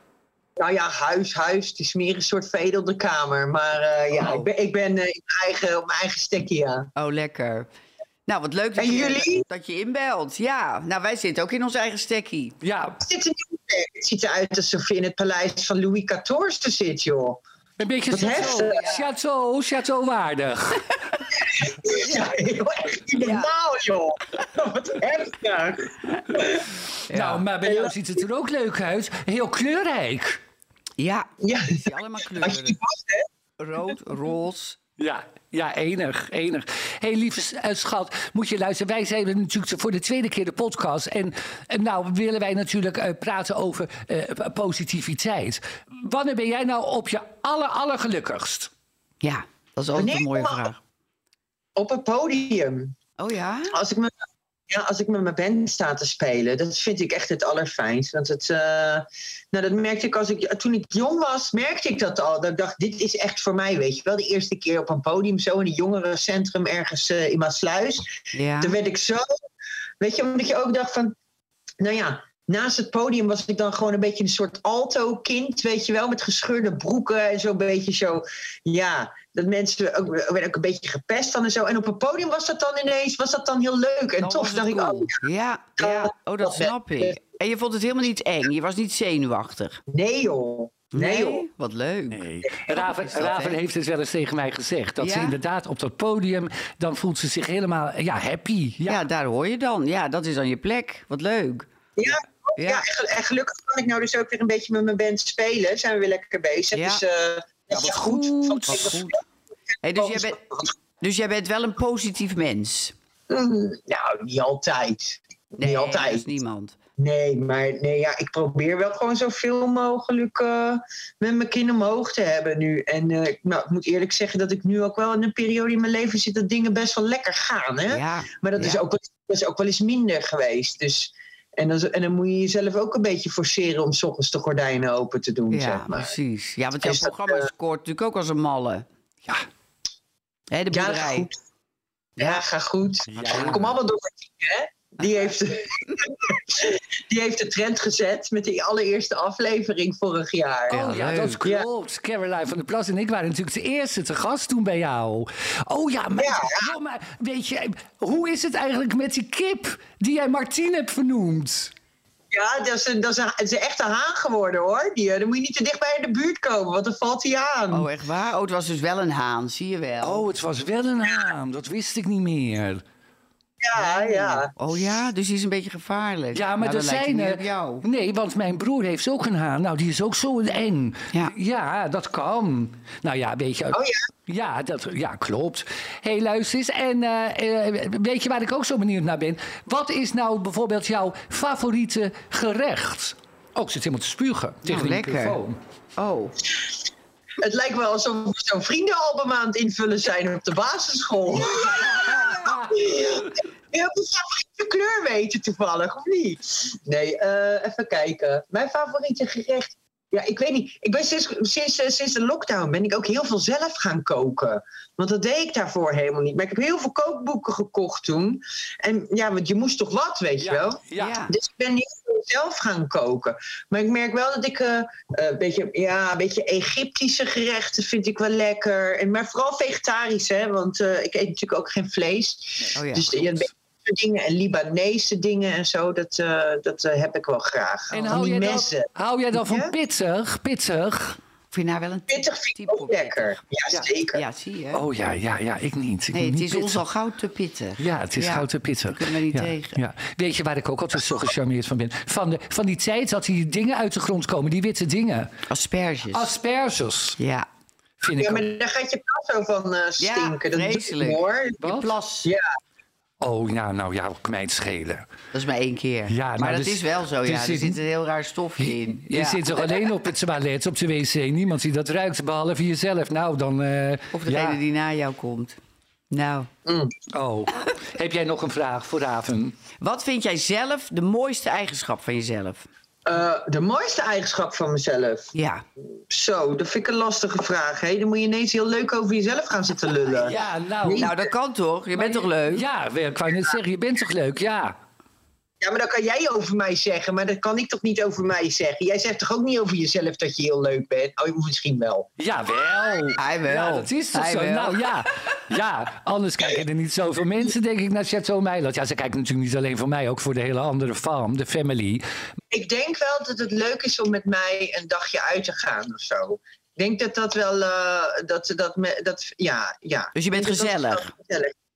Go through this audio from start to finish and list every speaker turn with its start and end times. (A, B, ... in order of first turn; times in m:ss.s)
0:00.6-0:06.9 A
0:04.2-0:04.5 B
0:07.0-0:07.7 B
0:08.3-0:12.6 B
0:08.8-0:09.4 A
0:12.6-0:13.0 C
0:13.0-0:17.4 A
0:17.8-0:20.9 C
0:18.1-0:19.0 A
0:18.2-0:19.1 B
0:21.5-0:26.7 A
0:21.9-0:22.3 B
0:23.2-0:23.5 B
0:27.1-0:27.4 B
0:27.1-0:30.4 C
0:27.6-0:27.9 A
0:31.0-0:32.8 B
0:31.4-0:33.3 A
0:33.6-0:34.8 B
0:35.0-0:48.7 C
0:49.2-0:50.8 B
0:50.0-0:50.7 A
0:51.8-0:53.0 A
0:53.2-0:53.8 B
0:53.7-0:54.1 A
0:54.7-1:09.3 A
1:08.3-1:08.8 B
1:10.0-1:11.2 A
1:11.8-1:25.2 A
1:24.2-1:29.8 B
1:25.8-1:27.2 A
1:29.9-1:31.4 A
1:30.9-1:33.6 B
1:32.1-1:39.0 C
1:35.0-1:35.4 B
1:38.9-1:41.7 B
1:42.0-1:49.2 A
1:42.6-1:42.8 B
1:46.7-1:47.0 B
1:47.7-1:49.0 C
1:48.7-1:49.2 B
1:49.8-1:53.0 B
1:50.0-1:50.7 A
1:53.3-1:56.3 A
1:55.6-1:56.8 B
1:57.0-2:16.2 A
2:07.9-2:08.8 B
2:15.5-2:18.9 B
2:16.8-2:17.5 A
2:20.5-2:21.3 B
2:20.7-2:21.4 A
2:22.2-2:22.4 B
2:22.2-2:30.8 A
2:23.1-2:23.8 C
2:23.3-2:23.6 B
2:30.7-2:31.4 B
2:30.7-2:41.7 C
2:36.2-2:36.7 A
2:42.3-2:47.9 A
2:47.7-2:50.2 B
2:50.0-2:52.8 C
2:53.6-2:54.5 A
2:53.8-2:57.8 B
2:56.3-3:15.6 C
3:03.7-3:04.1 A
3:14.6-3:15.4 B
3:16.0-3:16.4 B
3:17.4-3:59.7 A
3:21.7-3:22.5 B
3:21.7-3:23.1 C
3:40.4-3:41.2 C
3:41.0-3:41.3 B
3:52.8-3:53.1 B
3:57.9-4:01.2 C
4:01.5-4:03.4 B
4:02.1-4:04.2 A
4:04.1-4:04.8 B
4:04.7-4:06.8 C
4:06.1-4:09.8 B
4:07.8-4:15.4 C
4:15.5-4:16.3 B
4:16.1-4:17.2 C
4:17.2-4:17.5 B
4:18.0-4:18.5 C
4:18.2-4:21.6 A
4:20.0-4:22.3 B
4:21.6-4:21.9 C
4:23.2-4:25.1 C
4:25.3-4:29.9 B
4:26.1-4:27.8 C
4:28.6-4:34.6 C
4:34.1-4:35.6 B
4:36.1-4:36.5 B
4:36.7-4:36.9 A
4:37.1-4:39.6 C
4:39.8-4:42.7 B
4:43.1-4:45.3 A
4:45.3-4:45.6 B
4:46.1-4:51.3 A
4:50.1-4:51.1 C
4:51.0-4:52.6 B
4:52.0-4:54.8 C
4:55.6-5:02.1 A
5:02.2-5:12.0 C
5:03.2-5:05.1 B
5:12.5-5:21.5 A
5:20.2-5:21.1 B